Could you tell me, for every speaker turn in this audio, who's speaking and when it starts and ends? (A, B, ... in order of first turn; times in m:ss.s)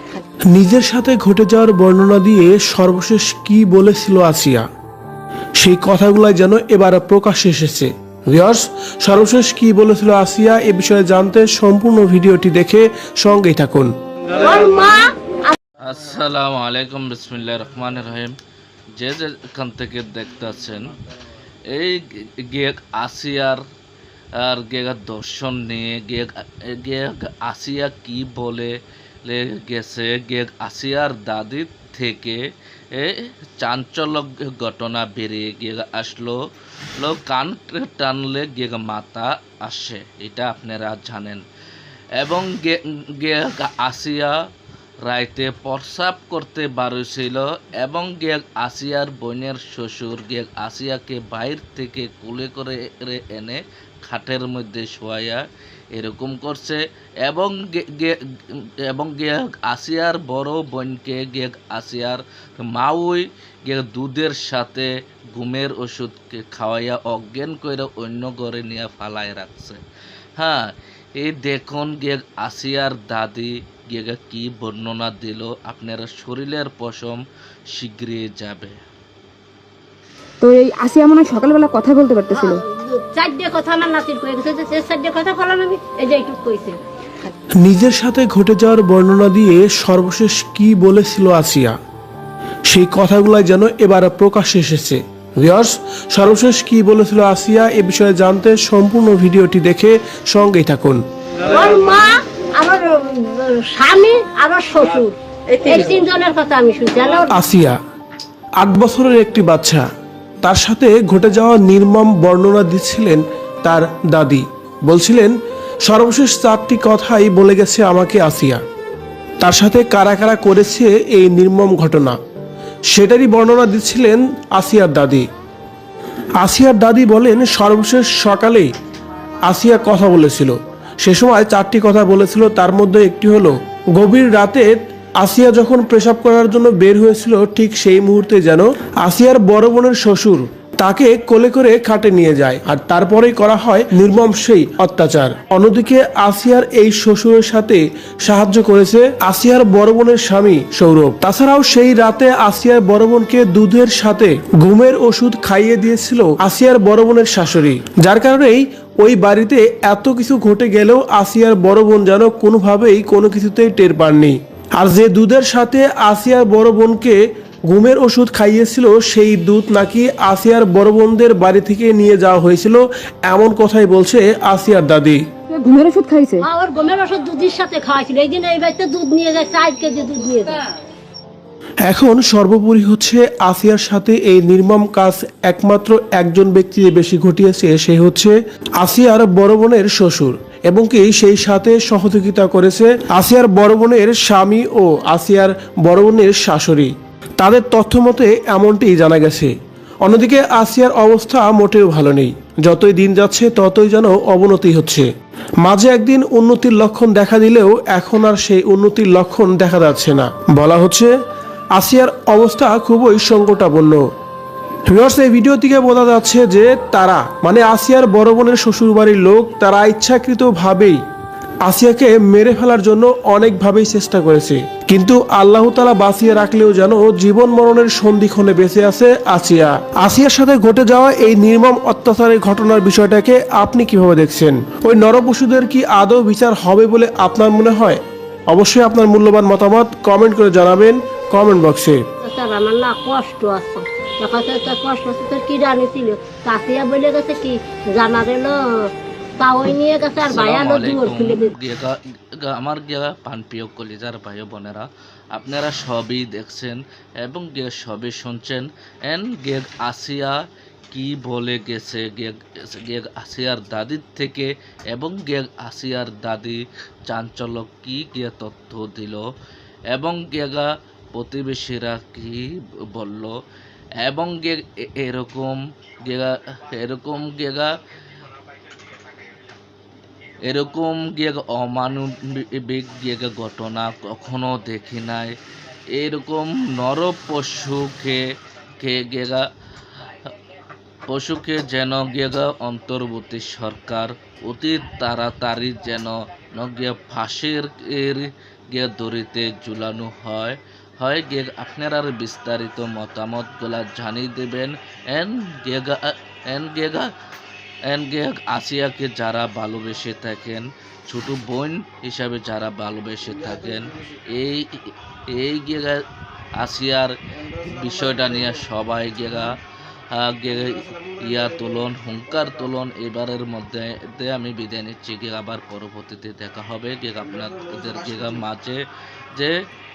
0:00.5-0:04.6 A
0:05.6-0:13.9 A
0:14.4-0:15.6 B
0:15.8-0:18.4 C
0:19.0-0:21.0 C
0:21.7-0:23.6 C
0:24.4-0:28.7 C
0:29.2-0:32.4 C
0:32.9-0:36.4 C
0:37.0-0:41.4 C
0:42.2-0:44.3 C
0:45.1-0:55.4 C
0:56.0-0:58.2 C
0:58.9-1:09.8 C
1:10.4-1:17.2 C
1:17.8-1:18.8 C
1:20.4-1:22.6 D
1:22.3-1:26.8 B
1:27.6-1:31.7 A
1:32.7-1:41.0 A
1:41.5-1:47.4 B
1:47.3-1:47.8 A
1:48.6-1:49.8 A
1:50.4-1:55.3 A
1:55.9-1:58.6 A
1:59.4-2:02.2 A
2:02.9-2:05.2 A
2:06.4-2:08.7 A
2:09.5-2:47.2 A
2:47.7-2:55.2 A
2:55.5-2:56.5 D
2:56.4-3:00.6 B
3:01.9-3:19.5 A
3:20.0-3:25.1 A
3:25.6-3:31.1 A
3:31.8-3:34.0 A
3:34.9-3:41.0 A
3:41.6-3:58.0 A
3:58.5-4:02.0 A
4:02.2-4:11.5 B
4:10.2-4:20.4 C
4:20.9-4:29.2 C
4:29.9-4:33.4 C
4:34.0-4:37.7 C
4:40.5-4:45.4 C
4:45.9-4:48.2 C
4:48.8-4:49.4 C
4:51.1-5:07.1 C
5:07.9-5:16.0 C
5:16.6-5:19.6 C
5:20.1-5:28.8 C
5:29.4-5:29.6 C